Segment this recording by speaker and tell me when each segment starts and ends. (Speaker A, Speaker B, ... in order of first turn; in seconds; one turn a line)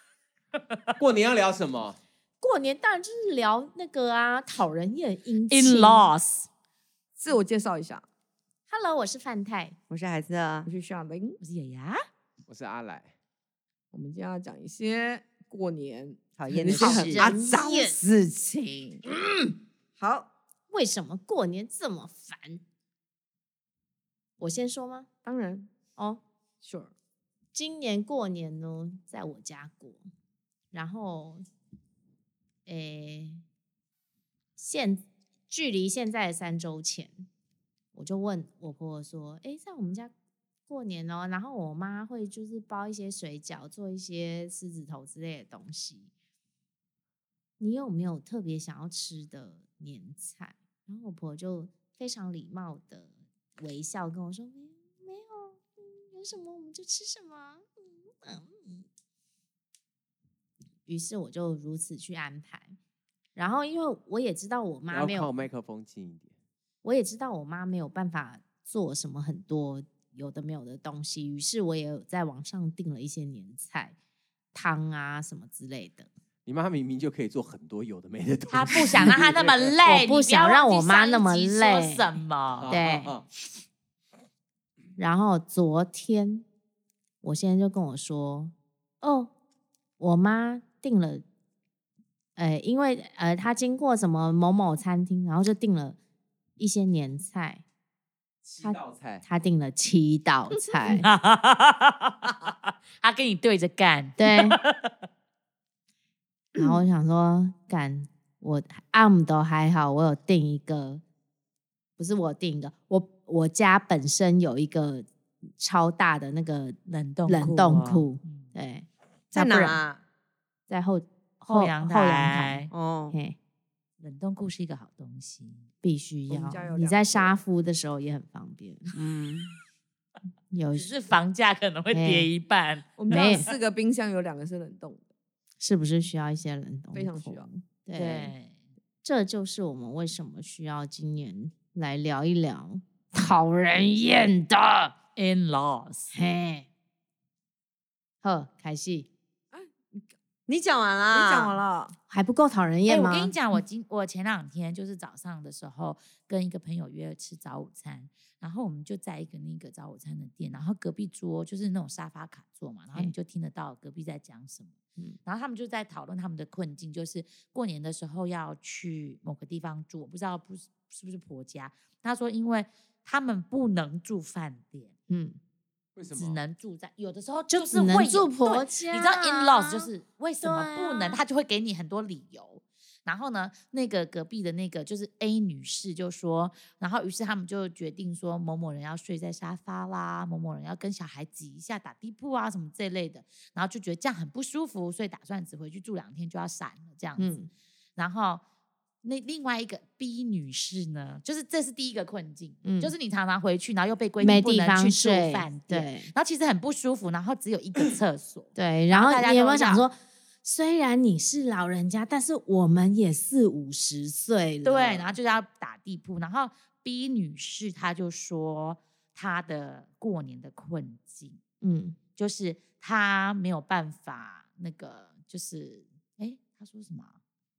Speaker A: 0.7-0.9
Speaker B: 1.0-2.0
Speaker C: 2.4-6.1
Speaker A: 5.5-6.5
Speaker D: 7.2-8.0
Speaker C: 8.7-9.8
Speaker E: 9.9-10.7
Speaker D: 10.6-11.4
Speaker A: 11.4-12.0
Speaker B: 12.5-13.1
Speaker D: 13.9-17.6
Speaker E: 16.4-19.0
Speaker C: 16.7-18.0
Speaker D: 18.6-18.9
Speaker C: 19.2-19.5
Speaker D: 20.0-20.3
Speaker C: 20.7-22.6
Speaker C: 24.4-25.1
Speaker D: 25.2-25.7
Speaker D: 26.6-26.9
Speaker C: 27.5-30.0
Speaker C: 30.7-31.4
Speaker C: 32.6-33.4
Speaker C: 34.6-37.2
Speaker C: 37.9-40.1
Speaker C: 40.7-46.1
Speaker C: 47.6-58.9
Speaker C: 60.9-62.8
Speaker C: 63.4-65.3
Speaker B: 64.9-66.3
Speaker C: 66.8-73.9
Speaker C: 74.5-76.1
Speaker B: 76.5-79.8
Speaker A: 78.5-82.7
Speaker C: 79.8-82.2
Speaker B: 82.6-83.2
Speaker C: 82.7-83.1
Speaker C: 85.0-86.4
Speaker C: 87.2-89.3
Speaker C: 90.0-91.2
Speaker C: 92.3-96.0
Speaker C: 96.6-97.6
Speaker B: 98.4-99.2
Speaker C: 98.6-101.0
Speaker A: 100.8-104.9
Speaker C: 104.2-104.6
Speaker C: 106.5-111.0
Speaker C: 112.0-115.0
Speaker C: 115.6-116.8
Speaker A: 116.9-118.5
Speaker C: 117.3-119.8
Speaker E: 119.3-120.0
Speaker C: 120.7-123.4
Speaker A: 121.4-122.7
Speaker E: 122.7-123.1
Speaker A: 124.0-125.7
Speaker C: 125.8-128.9
Speaker D: 126.3-127.4
Speaker E: 128.9-129.4
Speaker C: 130.5-130.9
Speaker A: 130.7-133.5
Speaker C: 131.9-132.3
Speaker D: 133.0-135.0
Speaker C: 133.1-133.5
Speaker C: 135.6-138.3
Speaker D: 136.9-137.5
Speaker A: 137.9-138.6
Speaker C: 139.0-144.9
Speaker A: 145.2-146.1
Speaker C: 146.1-146.7
Speaker C: 148.2-149.1
Speaker D: 149.5-150.0
Speaker E: 150.5-151.6
Speaker D: 151.1-151.9
Speaker C: 152.1-153.3
Speaker A: 152.9-174.9
Speaker C: 175.1-175.4
Speaker B: 175.9-176.4
Speaker A: 176.1-197.3
Speaker C: 177.5-179.9
Speaker C: 180.4-181.2
Speaker C: 197.2-197.5
Speaker A: 198.0-198.4
Speaker A: 199.0-209.8
Speaker C: 202.6-202.9
Speaker C: 204.2-206.1
Speaker C: 208.5-215.2
Speaker A: 214.6-221.4
Speaker C: 221.6-222.0
Speaker A: 222.2-227.2